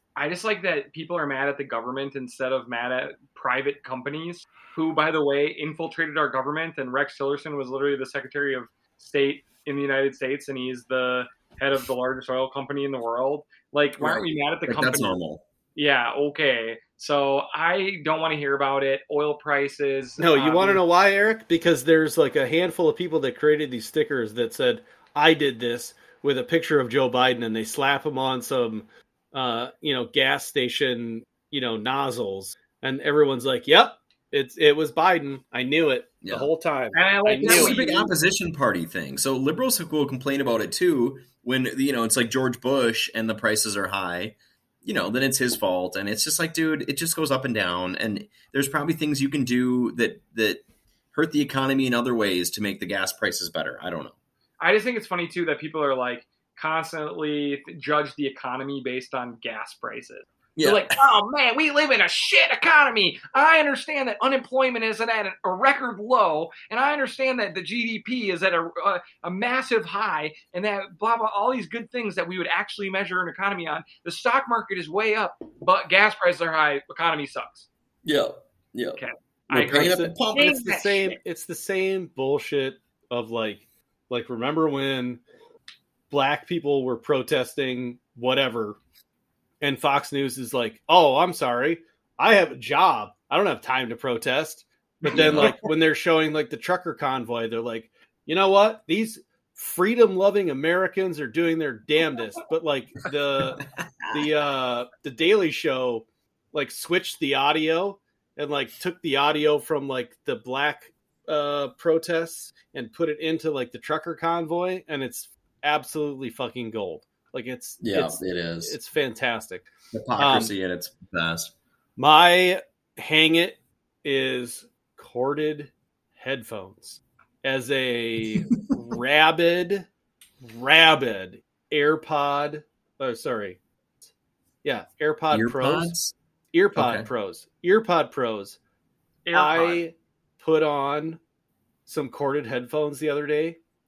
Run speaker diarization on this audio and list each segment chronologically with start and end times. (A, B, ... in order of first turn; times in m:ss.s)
0:00.2-0:15.2 A
0:14.0-0:15.4 B
0:15.8-0:20.8 A
0:20.2-0:37.8 C
0:36.2-0:36.5 B
0:36.9-0:38.1 A
0:37.4-0:54.1 B
0:54.6-1:17.7 A
1:00.6-1:00.9 B
1:18.0-1:19.0 B
1:19.0-1:21.2 A
1:19.5-1:20.5 B
1:19.7-1:25.2 C
1:26.1-1:28.8 C
1:29.6-2:00.5 C
1:35.1-1:35.5 A
1:35.1-1:35.6 B
1:43.8-1:44.2 B
1:57.8-1:58.8 B
1:59.9-2:01.5 B
2:02.0-2:09.9 C
2:10.4-2:14.1 C
2:14.6-2:16.0 C
2:15.3-2:16.2 B
2:16.5-2:18.6 C
2:16.8-2:17.1 B
2:19.3-2:19.8 A
2:19.3-2:21.2 C
2:21.9-2:23.6 C